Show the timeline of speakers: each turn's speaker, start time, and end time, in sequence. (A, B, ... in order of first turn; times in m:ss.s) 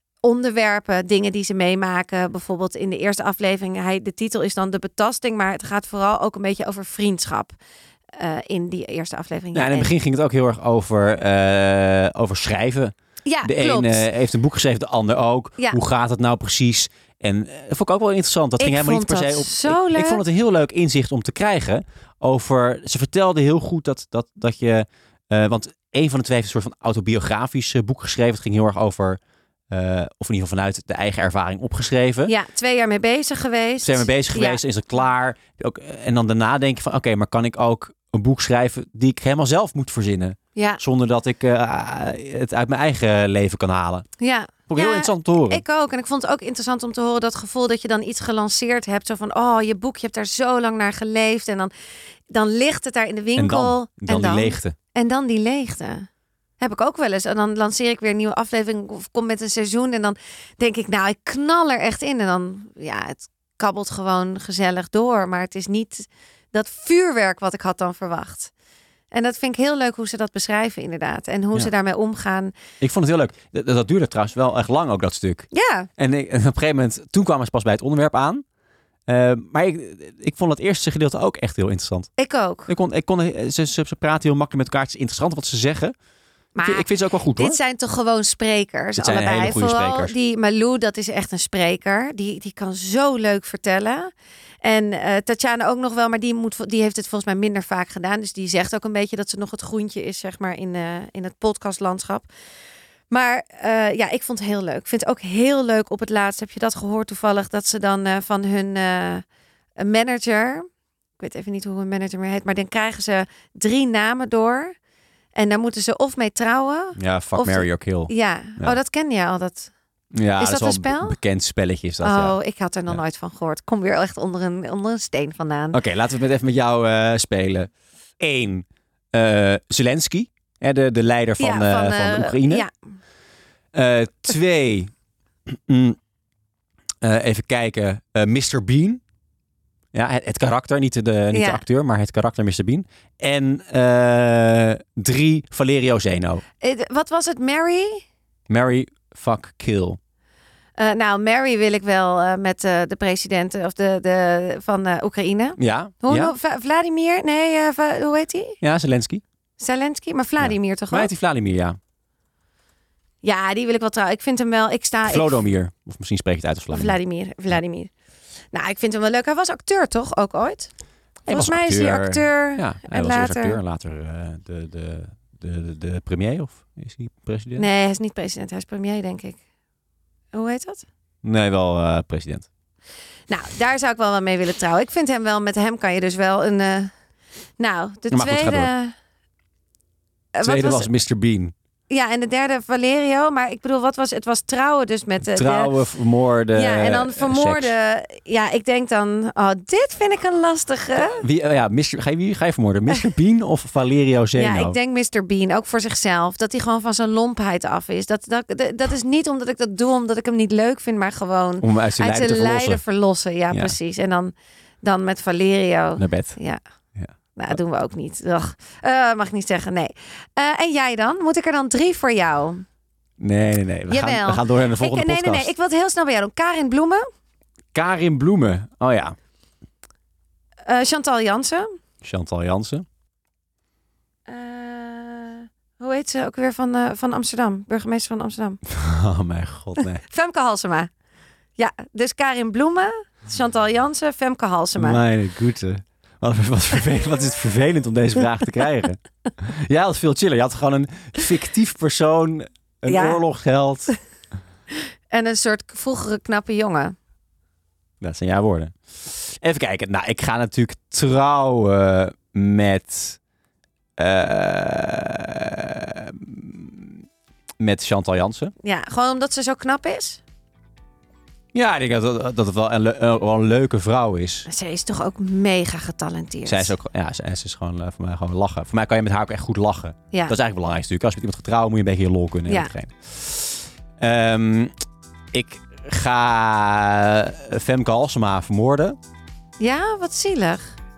0:00.2-0:07.6 A
0:08.2-0:09.9 A
0:09.5-0:29.2 B
0:13.2-0:14.0 A
0:18.6-0:20.2 A
0:29.7-0:32.3 B
0:32.2-0:34.6 A
0:33.8-0:44.0 B
0:40.6-0:40.8 A
0:44.2-0:51.7 A
0:44.7-0:45.6 B
0:52.3-0:56.1 A
0:53.4-0:54.8 B
0:56.6-1:08.5 A
1:09.1-1:12.5 A
1:12.8-1:18.4 B
1:15.5-1:15.9 A
1:19.1-1:22.1 B
1:22.2-1:22.7 A
1:22.7-1:25.9 B
1:26.5-1:34.1 A
1:26.6-1:27.6 B
1:29.0-1:30.1 B
1:34.6-1:42.3 A
1:43.1-1:49.2 A
1:49.8-1:50.6 A
1:51.2-1:54.7 A
1:55.3-1:59.7 A
1:57.0-1:58.8 B
2:00.1-2:02.4 B
2:00.4-2:01.2 A
2:02.0-2:05.8 A
2:05.7-2:07.7 B
2:08.2-2:12.6 B
2:11.4-2:12.7 A
2:13.7-2:14.9 B
2:15.5-2:16.0 B
2:17.0-2:19.0 B
2:19.9-2:26.4 B
2:21.3-2:21.6 A
2:26.6-2:28.0 A
2:28.5-2:30.0 B
2:30.8-2:38.6 A
2:35.6-2:36.3 B
2:38.6-2:39.2 B
2:39.6-2:41.1 A
2:40.4-2:41.8 B
2:43.2-2:45.5 A
2:45.0-2:47.0 B
2:46.7-2:47.9 A
2:48.5-2:50.7 A
2:51.2-2:53.6 A
2:51.3-2:57.6 B
2:57.6-2:59.4 A
3:00.3-3:00.8 A
3:01.2-3:02.5 B
3:03.3-3:06.9 A
3:07.6-3:08.9 A
3:08.1-3:08.7 B
3:10.3-3:10.9 A
3:10.4-3:11.5 B
3:11.9-3:15.8 A
3:15.2-3:17.7 B
3:16.5-3:21.2 A
3:21.0-3:24.8 B
3:24.3-3:36.6 A
3:31.6-3:32.8 B
3:33.5-3:33.8 B
3:36.0-3:36.4 B
3:37.4-3:42.6 A
3:43.2-3:45.5 B
3:43.9-3:47.0 A
3:47.7-3:49.1 B
3:50.6-3:51.7 A
3:52.0-3:52.8 B
3:54.3-3:58.6 A
3:58.7-4:00.0 B
3:59.8-4:00.9 A
4:01.6-4:05.0 A
4:04.8-4:13.9 B
4:12.8-4:13.2 A
4:15.1-4:17.0 A
4:18.0-4:23.2 B
4:24.0-4:27.0 B
4:27.6-4:28.5 B
4:28.6-4:30.2 A
4:31.5-4:34.5 B
4:34.5-4:36.7 A
4:36.4-4:44.7 B
4:42.5-4:42.7 A
4:45.3-4:49.0 B
4:49.6-4:50.8 A